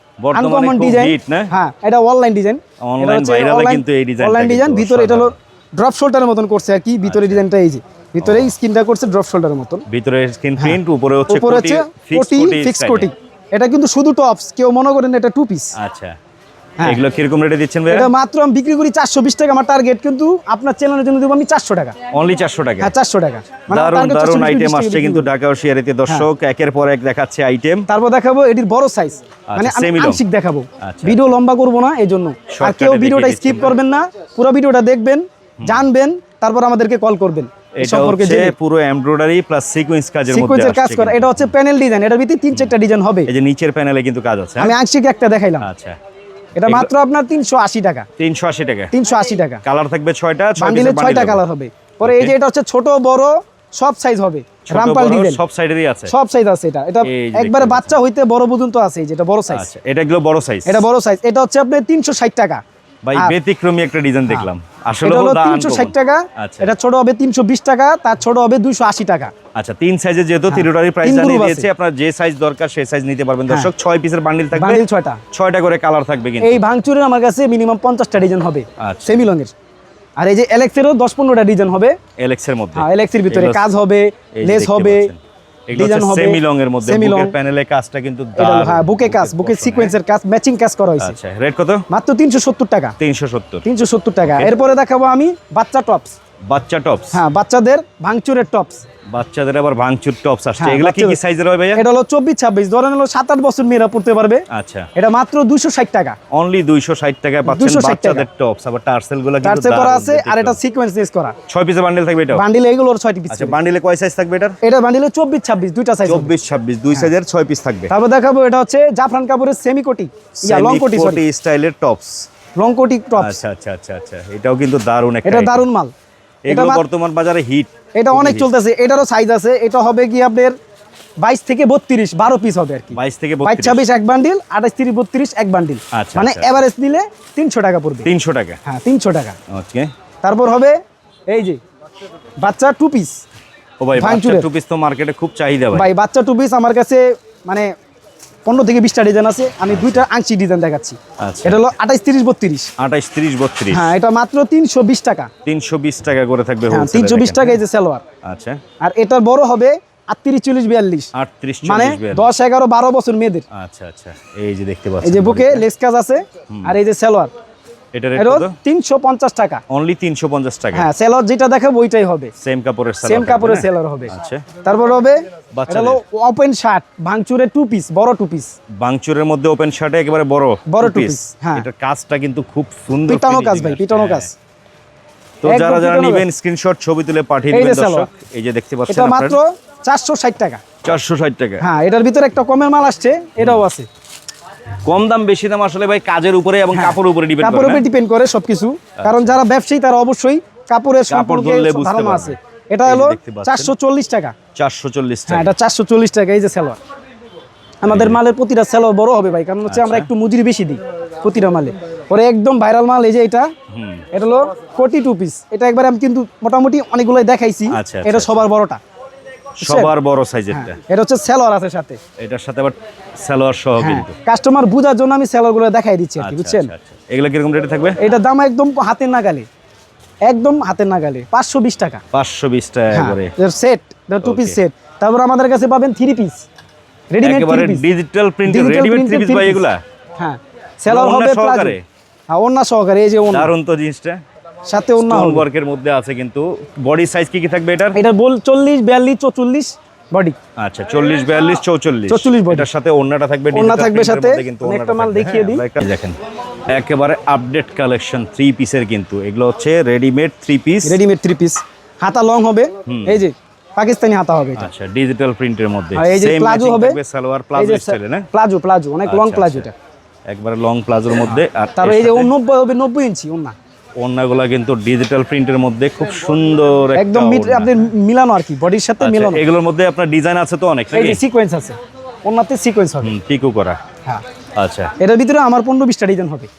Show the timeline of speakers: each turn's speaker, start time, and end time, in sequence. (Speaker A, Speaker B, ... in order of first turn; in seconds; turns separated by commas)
Speaker A: 0.2-1.5, Speaker B: 0.3-9.8, Speaker A: 2.8-5.3, Speaker A: 7.0-7.5, Speaker A: 8.2-8.5, Speaker A: 9.9-13.1, Speaker B: 11.3-15.7, Speaker A: 15.8-16.1, Speaker A: 16.8-18.1, Speaker B: 17.9-21.9, Speaker A: 22.1-22.9, Speaker B: 22.8-25.3, Speaker A: 23.7-27.9, Speaker B: 27.9-38.5, Speaker A: 29.5-30.2, Speaker A: 30.8-31.3, Speaker A: 32.5-33.8, Speaker A: 37.8-41.5, Speaker B: 40.3-43.3, Speaker A: 43.3-44.7, Speaker B: 44.6-45.7, Speaker A: 45.6-46.0, Speaker B: 46.5-48.1, Speaker A: 46.6-46.9, Speaker A: 48.2-48.9, Speaker B: 48.9-49.6, Speaker A: 49.6-51.4, Speaker B: 50.6-55.4, Speaker A: 52.0-52.3, Speaker A: 54.7-56.1, Speaker B: 56.1-59.6, Speaker A: 57.0-58.0, Speaker A: 59.5-60.8, Speaker B: 60.6-62.6, Speaker A: 63.0-66.7, Speaker B: 64.3-69.3, Speaker A: 69.5-76.6, Speaker B: 70.5-71.7, Speaker B: 74.5-75.2, Speaker B: 76.4-79.5, Speaker A: 78.8-79.2, Speaker B: 80.2-82.0, Speaker A: 82.2-83.7, Speaker B: 82.7-85.1, Speaker A: 84.3-89.9, Speaker B: 85.7-87.3, Speaker B: 88.3-91.2, Speaker A: 91.0-91.8, Speaker B: 91.9-93.0, Speaker A: 93.0-93.6, Speaker B: 93.6-96.1, Speaker A: 94.2-94.5, Speaker A: 96.5-97.2, Speaker B: 97.1-98.8, Speaker A: 99.1-101.8, Speaker B: 100.6-101.2, Speaker B: 101.7-106.2, Speaker A: 104.5-104.9, Speaker A: 106.3-110.6, Speaker B: 107.4-108.2, Speaker B: 109.4-111.3, Speaker A: 111.5-112.4, Speaker B: 112.3-113.6, Speaker A: 113.3-114.6, Speaker B: 114.6-116.3, Speaker A: 116.0-117.9, Speaker B: 117.9-121.2, Speaker A: 120.4-122.3, Speaker B: 122.6-123.4, Speaker A: 123.2-125.6, Speaker B: 125.2-125.9, Speaker A: 126.5-128.5, Speaker B: 126.5-126.8, Speaker B: 127.9-130.6, Speaker B: 131.2-138.1, Speaker A: 132.9-133.8, Speaker A: 135.9-136.6, Speaker A: 138.0-138.6, Speaker B: 138.6-139.4, Speaker A: 139.5-139.9, Speaker B: 140.2-140.7, Speaker B: 141.3-141.6, Speaker B: 142.4-143.2, Speaker A: 143.8-145.9, Speaker B: 143.9-144.5, Speaker B: 145.7-147.7, Speaker B: 148.4-152.7, Speaker A: 149.7-150.0, Speaker A: 151.2-151.6, Speaker A: 152.8-153.9, Speaker B: 153.7-155.3, Speaker A: 155.4-157.6, Speaker B: 156.7-158.0, Speaker A: 158.2-158.6, Speaker B: 158.8-161.1, Speaker A: 161.1-162.3, Speaker B: 161.6-163.4, Speaker A: 163.5-165.6, Speaker B: 165.0-167.3, Speaker A: 166.5-166.8, Speaker A: 167.9-168.5, Speaker B: 168.2-169.6, Speaker A: 169.7-170.9, Speaker B: 170.7-172.3, Speaker A: 172.4-174.4, Speaker B: 173.0-174.1, Speaker B: 174.6-178.5, Speaker A: 175.5-176.0, Speaker A: 178.8-184.3, Speaker B: 180.7-181.7, Speaker B: 183.1-184.3, Speaker A: 185.4-189.4, Speaker B: 185.4-186.2, Speaker B: 187.5-188.1, Speaker B: 188.9-190.6, Speaker A: 190.8-191.6, Speaker B: 191.6-193.9, Speaker A: 193.4-193.6, Speaker A: 194.8-197.8, Speaker B: 196.7-204.3, Speaker A: 199.0-199.3, Speaker A: 201.1-203.7, Speaker A: 204.5-205.5, Speaker B: 205.3-206.8, Speaker B: 207.8-213.5, Speaker A: 207.8-208.2, Speaker A: 209.7-210.1, Speaker A: 213.7-214.0, Speaker B: 214.1-218.8, Speaker A: 217.7-218.4, Speaker B: 219.6-219.9, Speaker A: 219.6-220.8, Speaker B: 220.5-222.0, Speaker A: 222.2-224.1, Speaker B: 223.8-226.7, Speaker A: 226.2-228.0, Speaker B: 228.0-229.4, Speaker B: 230.2-232.0, Speaker A: 232.1-233.3, Speaker B: 232.9-236.4, Speaker A: 234.2-234.6, Speaker B: 237.1-237.8, Speaker A: 237.2-239.8, Speaker B: 238.4-239.6, Speaker B: 240.2-241.8, Speaker A: 240.9-241.8, Speaker B: 242.3-243.5, Speaker A: 243.3-244.2, Speaker B: 244.7-245.4, Speaker A: 245.0-248.0, Speaker B: 247.9-250.4, Speaker A: 250.6-256.2, Speaker B: 252.1-252.7, Speaker B: 253.5-255.6, Speaker A: 256.7-261.0, Speaker B: 260.8-264.7, Speaker A: 262.9-263.2, Speaker A: 264.6-268.3, Speaker B: 265.9-267.0, Speaker B: 267.5-269.7, Speaker A: 269.0-269.7, Speaker A: 270.3-272.3, Speaker B: 271.2-273.5, Speaker A: 274.0-277.7, Speaker B: 276.9-279.4, Speaker A: 279.0-281.2, Speaker B: 280.9-283.1, Speaker A: 283.0-283.8, Speaker A: 284.6-284.9, Speaker B: 285.0-286.5